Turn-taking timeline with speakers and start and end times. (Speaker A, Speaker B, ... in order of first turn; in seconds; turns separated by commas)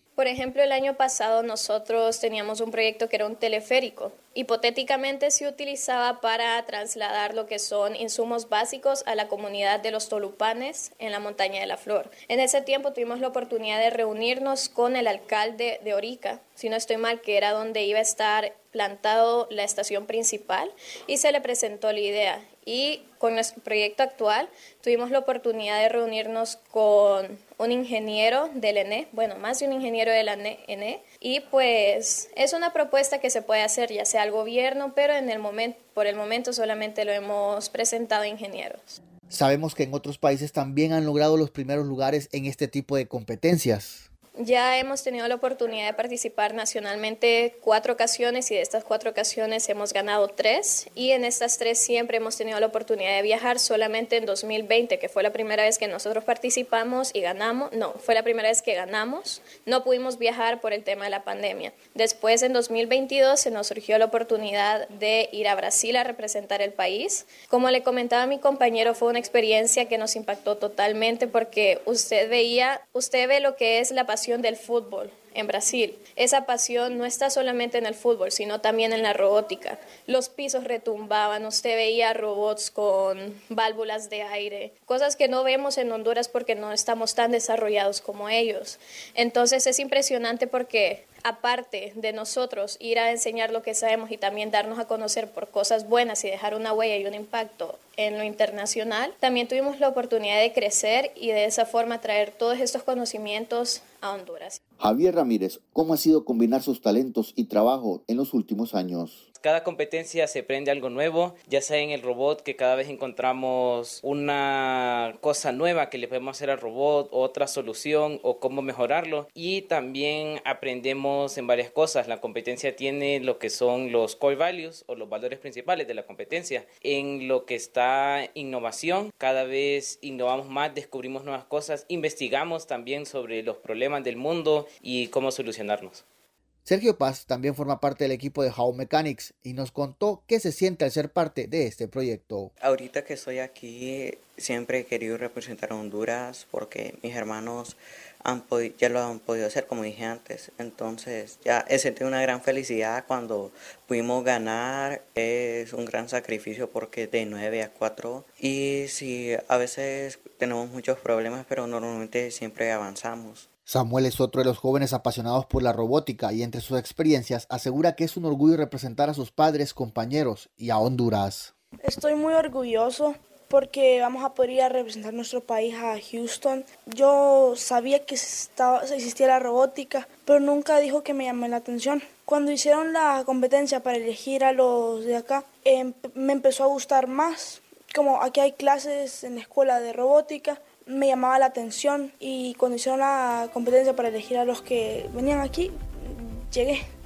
Speaker A: 0.1-39.0, Speaker B: 39.3-44.1, Speaker A: 44.4-104.6, Speaker B: 104.8-109.2, Speaker C: 109.4-136.0, Speaker B: 136.7-142.5, Speaker D: 142.6-163.4, Speaker B: 163.7-171.5, Speaker E: 171.8-196.8